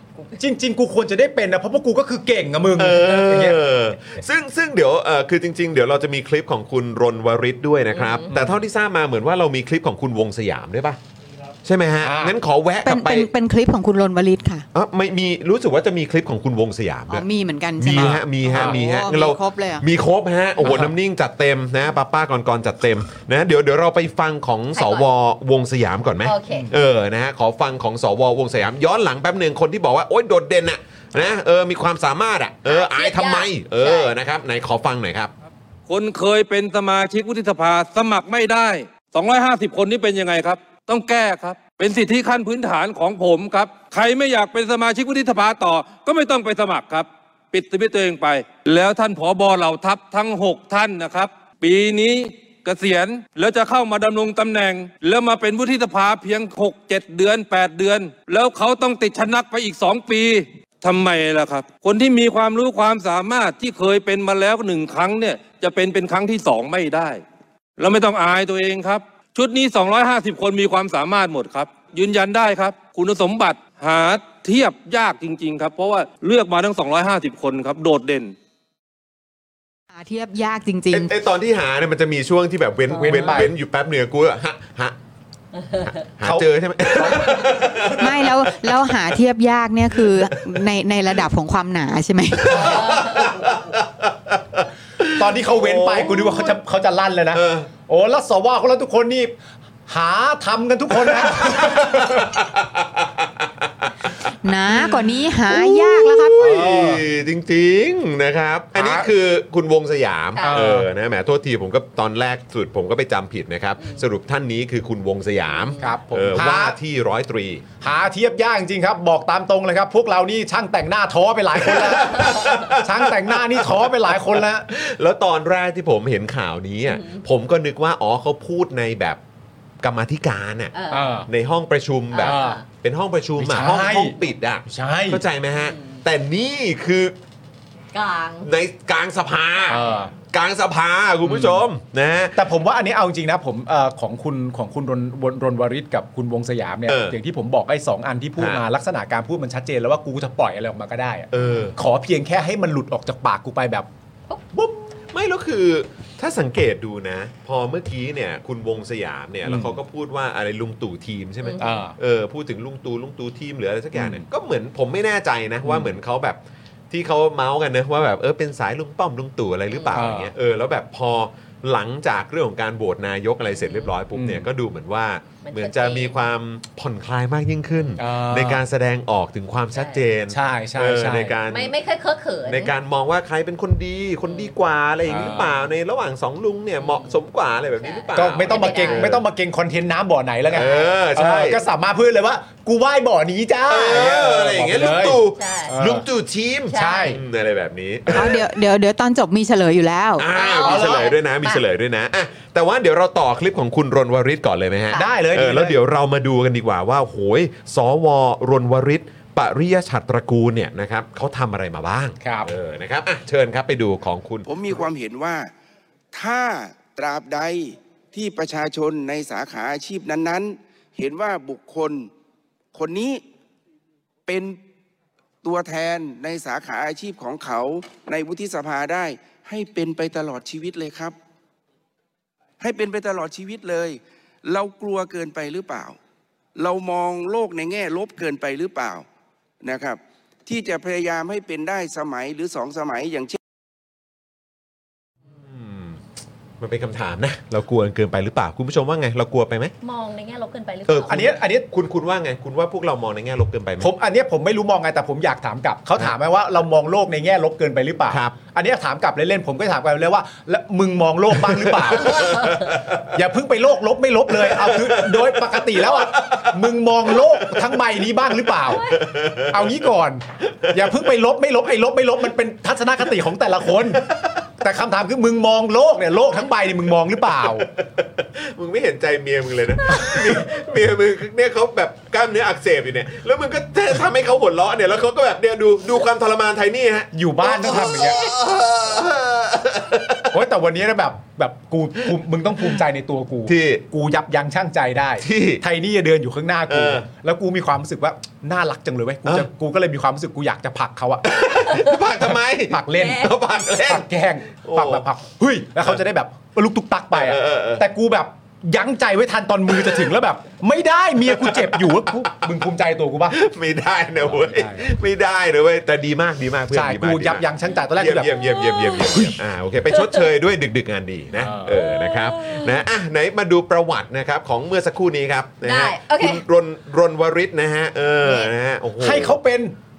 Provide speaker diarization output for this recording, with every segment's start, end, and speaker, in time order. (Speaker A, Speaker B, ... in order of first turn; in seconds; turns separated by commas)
Speaker A: 0.3-3.6, Speaker B: 2.8-11.0, Speaker C: 7.9-8.3, Speaker A: 8.3-8.6, Speaker B: 11.6-13.3, Speaker A: 12.0-12.3, Speaker D: 12.8-14.6, Speaker B: 14.7-17.2, Speaker D: 17.1-19.8, Speaker B: 17.8-35.3, Speaker A: 17.9-18.8, Speaker A: 20.6-20.9, Speaker C: 24.7-25.1, Speaker C: 26.2-26.7, Speaker C: 32.6-34.1, Speaker E: 35.9-67.2, Speaker E: 67.8-78.3, Speaker D: 79.9-81.1, Speaker B: 80.9-85.0, Speaker A: 82.9-83.5, Speaker B: 86.1-88.8, Speaker A: 86.2-87.9, Speaker D: 88.0-92.6, Speaker B: 90.1-90.5, Speaker B: 92.4-96.5, Speaker C: 92.5-93.5, Speaker A: 95.1-99.3, Speaker B: 97.3-97.7, Speaker A: 99.9-102.2, Speaker B: 101.1-103.9, Speaker D: 104.4-106.4, Speaker B: 104.7-117.7, Speaker A: 106.4-107.0, Speaker A: 108.7-109.1, Speaker A: 110.4-110.9, Speaker C: 115.5-116.0, Speaker A: 115.8-116.8, Speaker A: 117.8-124.7, Speaker B: 121.6-129.2, Speaker C: 126.9-127.2, Speaker B: 129.8-130.7, Speaker C: 130.7-131.1, Speaker A: 130.9-131.3, Speaker B: 131.3-137.1, Speaker C: 132.1-132.6, Speaker A: 132.2-132.6, Speaker A: 133.4-135.2, Speaker C: 135.5-136.0, Speaker C: 137.9-138.5, Speaker B: 138.4-142.4, Speaker A: 139.7-140.1, Speaker A: 141.2-141.6, Speaker A: 142.3-153.9, Speaker B: 146.9-147.2, Speaker B: 148.4-148.6, Speaker B: 151.3-151.8, Speaker C: 151.4-151.7, Speaker B: 155.1-181.7, Speaker A: 159.4-159.8, Speaker A: 161.6-161.9, Speaker A: 163.9-164.2, Speaker A: 165.6-165.9, Speaker C: 169.7-170.0, Speaker A: 169.9-170.3, Speaker C: 173.4-173.9, Speaker A: 174.1-174.5, Speaker C: 175.4-176.1, Speaker A: 178.0-178.6, Speaker C: 179.8-180.0, Speaker A: 180.3-181.3, Speaker C: 181.5-182.7, Speaker B: 182.4-189.2, Speaker A: 185.1-185.4, Speaker C: 185.1-185.5, Speaker C: 186.8-187.2, Speaker C: 187.8-189.1, Speaker A: 188.1-196.0, Speaker B: 190.5-191.6, Speaker C: 190.6-190.9, Speaker B: 193.7-198.4, Speaker C: 195.3-195.8, Speaker C: 196.7-197.2, Speaker A: 196.7-197.2, Speaker D: 198.1-200.3, Speaker B: 200.2-214.5, Speaker C: 200.3-201.6, Speaker A: 200.6-201.1, Speaker A: 204.9-205.8, Speaker A: 212.2-212.5, Speaker F: 214.4-215.5, Speaker F: 216.1-222.1, Speaker F: 222.7-223.2, Speaker F: 224.3-224.6, Speaker F: 225.4-231.2, Speaker F: 232.6-236.0, Speaker F: 236.6-239.0, Speaker F: 239.6-243.4, Speaker B: 245.4-246.0, Speaker B: 246.6-249.7, Speaker C: 249.8-251.3, Speaker B: 250.9-253.9, Speaker A: 251.1-251.7, Speaker A: 253.8-262.3, Speaker B: 258.1-258.3, Speaker B: 261.4-263.1, Speaker C: 262.1-262.5, Speaker A: 263.1-268.9, Speaker B: 264.3-266.5, Speaker B: 267.1-267.6, Speaker C: 268.7-269.0, Speaker B: 268.9-269.7, Speaker A: 269.5-277.7, Speaker B: 277.4-290.4, Speaker A: 287.1-288.2, Speaker A: 290.3-301.2, Speaker B: 293.4-293.8, Speaker B: 295.2-295.6, Speaker B: 296.7-297.1, Speaker B: 301.3-305.1, Speaker C: 301.7-302.0, Speaker A: 302.7-313.4, Speaker C: 302.9-303.3, Speaker B: 307.1-307.8, Speaker B: 309.7-310.1, Speaker B: 311.2-312.2, Speaker B: 313.3-329.4, Speaker A: 314.2-314.9, Speaker A: 316.7-318.4, Speaker C: 318.4-319.1, Speaker C: 319.9-320.3, Speaker A: 321.3-321.8, Speaker C: 321.7-322.8, Speaker C: 325.6-326.4, Speaker C: 328.2-328.5, Speaker A: 329.0-329.7